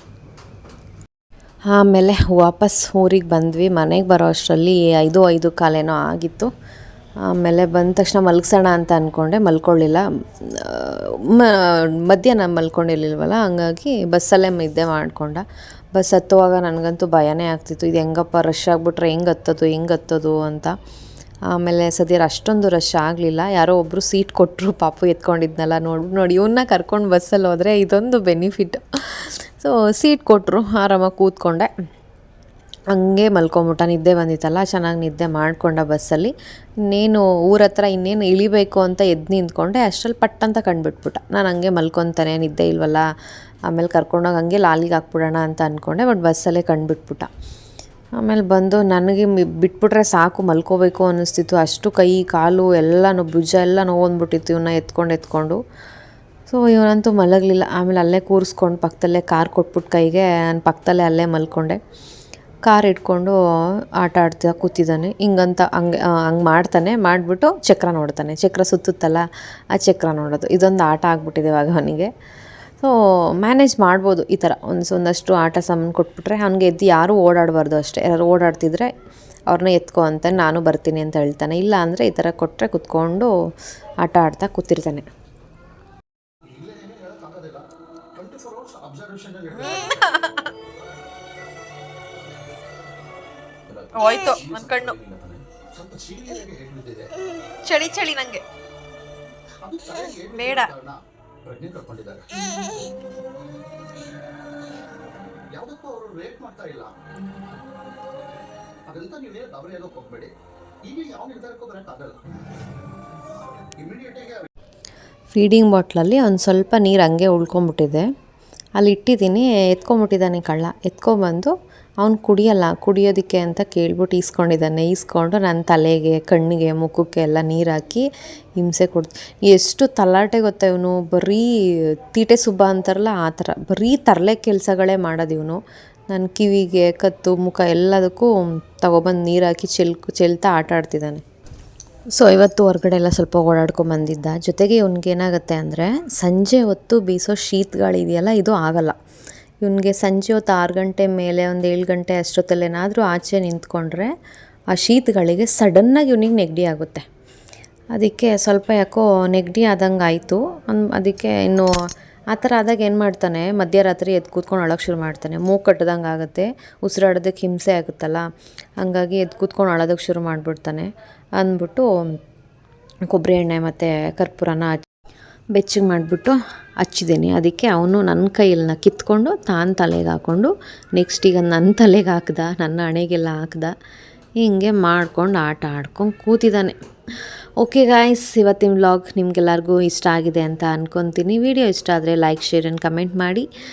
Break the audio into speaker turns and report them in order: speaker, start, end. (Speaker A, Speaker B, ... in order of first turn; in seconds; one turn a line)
Speaker A: 1.7-6.5
Speaker A: 7.2-20.7
Speaker A: 21.5-31.7
Speaker A: 32.9-36.3
Speaker A: 36.8-43.0
Speaker A: 43.7-47.3
Speaker A: 48.2-55.6
Speaker A: 56.5-61.8
Speaker A: 62.6-63.4
Speaker A: 64.0-72.1
Speaker A: 72.8-78.9
Speaker A: 79.5-83.3
Speaker A: 84.0-85.1
Speaker B: 86.5-89.9
Speaker C: 89.6-90.5
Speaker B: 93.7-97.1
Speaker C: 93.9-95.0
Speaker C: 97.6-98.4
Speaker B: 99.6-102.3
Speaker C: 100.2-100.7
Speaker B: 105.5-106.9
Speaker B: 108.9-110.3
Speaker B: 110.8-112.2
Speaker B: 113.8-114.5
Speaker A: 115.3-118.0
Speaker A: 118.8-128.1
Speaker A: 128.6-141.2
Speaker A: 142.1-148.9
Speaker A: 149.6-154.1
Speaker A: 154.7-157.1
Speaker A: 157.9-161.7
Speaker A: 162.3-168.3
Speaker A: 168.8-171.9
Speaker A: 173.1-174.8
Speaker A: 175.5-183.7
Speaker A: 184.4-186.8
Speaker A: 187.6-193.5